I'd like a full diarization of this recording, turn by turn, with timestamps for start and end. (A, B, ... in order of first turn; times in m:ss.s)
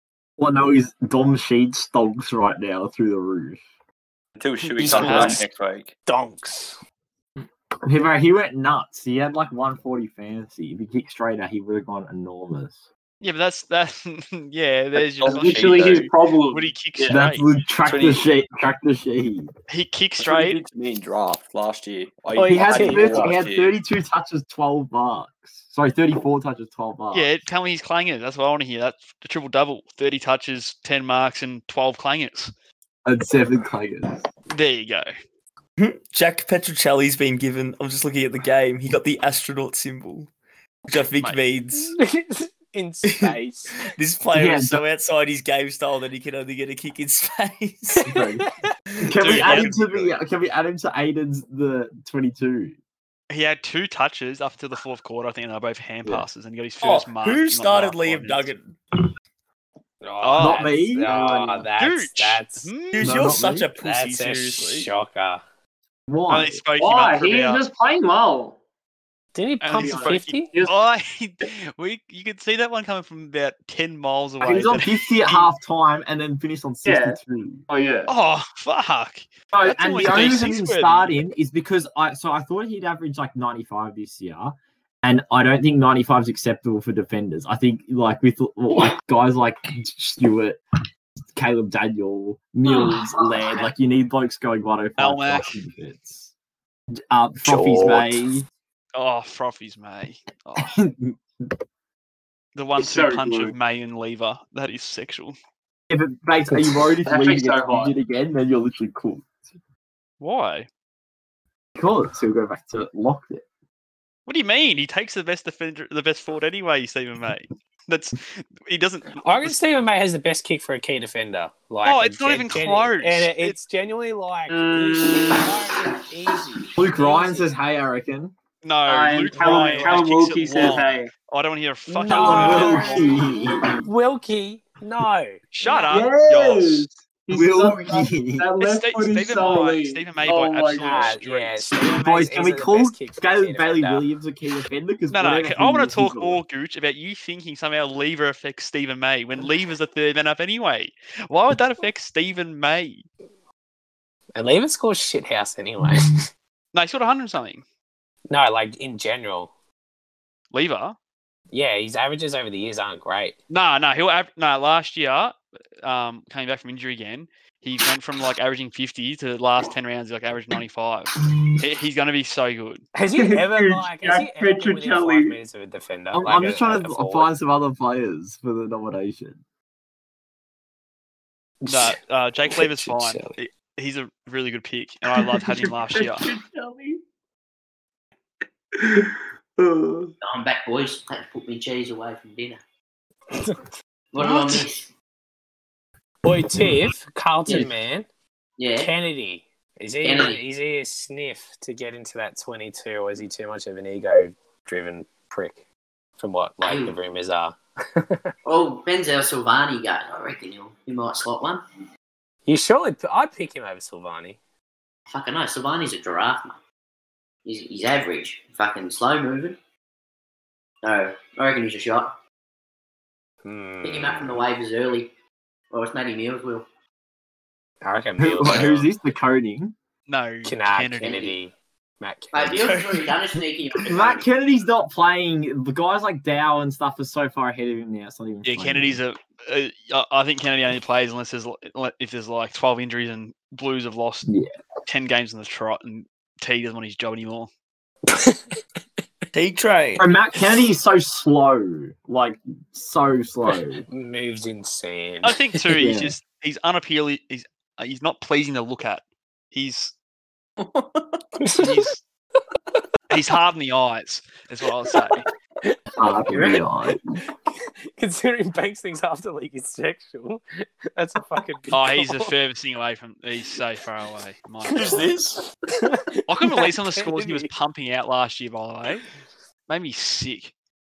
0:00.4-0:03.6 A
0:04.4-0:05.9 B
0:04.6-0:05.4 C
0:06.0-0:06.8 D
0:07.8-0:12.8 A
0:13.2-0:17.5 C
0:15.0-0:16.1 B
0:15.2-0:17.2 E
0:17.1-0:19.5 A
0:17.8-0:18.3 B
0:19.7-0:20.6 C
0:20.2-0:23.7 B
0:22.3-0:23.4 D
0:22.4-0:27.3 A
0:27.1-0:32.5 C
0:33.0-0:34.2 A
0:34.5-0:35.1 C
0:35.8-0:40.3 F
0:40.9-0:41.9 F
0:41.7-0:43.9 D
0:43.0-0:48.2 F
0:44.3-0:44.8 A
0:48.0-0:48.5 A
0:49.0-0:52.8 A
0:49.2-0:50.0 C
0:49.4-0:49.7 D
0:53.3-0:58.5 C
0:56.8-0:58.7 F
1:00.0-1:02.7 D
1:00.2-1:00.8 C
1:00.4-1:01.1 A
1:01.2-1:01.6 E
1:01.8-1:03.2 C
1:02.9-1:04.9 F
1:03.0-1:03.7 A
1:03.8-1:05.4 D
1:06.1-1:06.6 A
1:06.3-1:07.6 C
1:06.8-1:08.6 E
1:09.3-1:10.5 D
1:09.6-1:15.5 C
1:09.7-1:10.8 E
1:14.4-1:17.6 A
1:16.8-1:18.1 E
1:18.1-1:21.2 C
1:19.5-1:20.5 E
1:19.6-1:30.6 A
1:31.3-1:36.3 A
1:35.0-1:35.6 C
1:37.0-1:38.4 A
1:37.4-1:38.2 D
1:38.9-1:40.7 C
1:40.6-1:41.5 A
1:42.5-1:45.4 C
1:42.8-1:43.5 E
1:45.9-1:49.3 A
1:47.0-1:47.9 E
1:50.2-1:50.7 C
1:51.8-1:53.4 A
1:54.2-1:59.6 C
1:59.2-2:07.5 D
2:01.8-2:03.6 C
2:04.5-2:05.5 E
2:06.8-2:08.3 A
2:08.6-2:13.3 C
2:08.8-2:11.1 E
2:09.5-2:10.0 D
2:11.9-2:15.4 D
2:12.1-2:13.8 A
2:12.4-2:12.8 E
2:15.5-2:16.9 C
2:15.8-2:21.2 E
2:17.3-2:18.5 A
2:18.6-2:21.7 C
2:20.8-2:24.1 D
2:21.8-2:26.4 A
2:25.1-2:33.0 C
2:34.3-2:36.3 D
2:36.7-2:37.6 C
2:38.3-2:39.5 D
2:40.5-2:41.0 C
2:41.5-2:43.4 D
2:43.5-2:52.9 C
2:52.9-2:57.3 D
2:53.1-2:55.4 E
2:56.1-2:59.4 A
3:01.6-3:02.0 D
3:01.7-3:06.4 C
3:02.5-3:03.4 D
3:05.8-3:07.0 E
3:09.6-3:10.0 E
3:10.2-3:12.6 G
3:13.3-3:13.7 D
3:14.1-3:14.9 G
3:14.2-3:14.6 C
3:16.2-3:18.1 D
3:18.6-3:18.9 G
3:18.8-3:25.6 D
3:20.0-3:20.4 G
3:26.2-3:28.3 D
3:26.6-3:27.0 G
3:28.4-3:31.6 G
3:32.4-3:34.4 D
3:35.1-3:36.6 G
3:37.4-3:39.6 G
3:40.8-3:42.1 G
3:43.4-3:44.4 D
3:43.8-3:45.1 G
3:45.7-3:46.6 G
3:47.8-3:48.9 D
3:48.2-3:49.7 A
3:50.1-3:51.4 C
3:50.4-3:52.8 D
3:52.3-3:54.3 G
3:52.6-3:53.1 F
3:53.8-3:59.0 A
3:58.4-4:04.3 C
4:04.2-4:04.5 A
4:04.8-4:07.5 C
4:08.1-4:08.6 D
4:09.3-4:10.1 F
4:10.0-4:13.8 A
4:13.9-4:15.6 D
4:15.2-4:19.9 C
4:15.7-4:16.1 A
4:20.6-4:21.2 B
4:21.4-4:21.8 D
4:21.5-4:22.0 C
4:23.1-4:25.2 C
4:25.6-4:26.6 D
4:26.0-4:27.0 A
4:27.2-4:32.3 D
4:31.7-4:35.0 C
4:34.7-4:35.5 F
4:34.7-4:35.0 D
4:35.8-4:37.5 D
4:36.3-4:39.1 C
4:39.7-4:40.5 C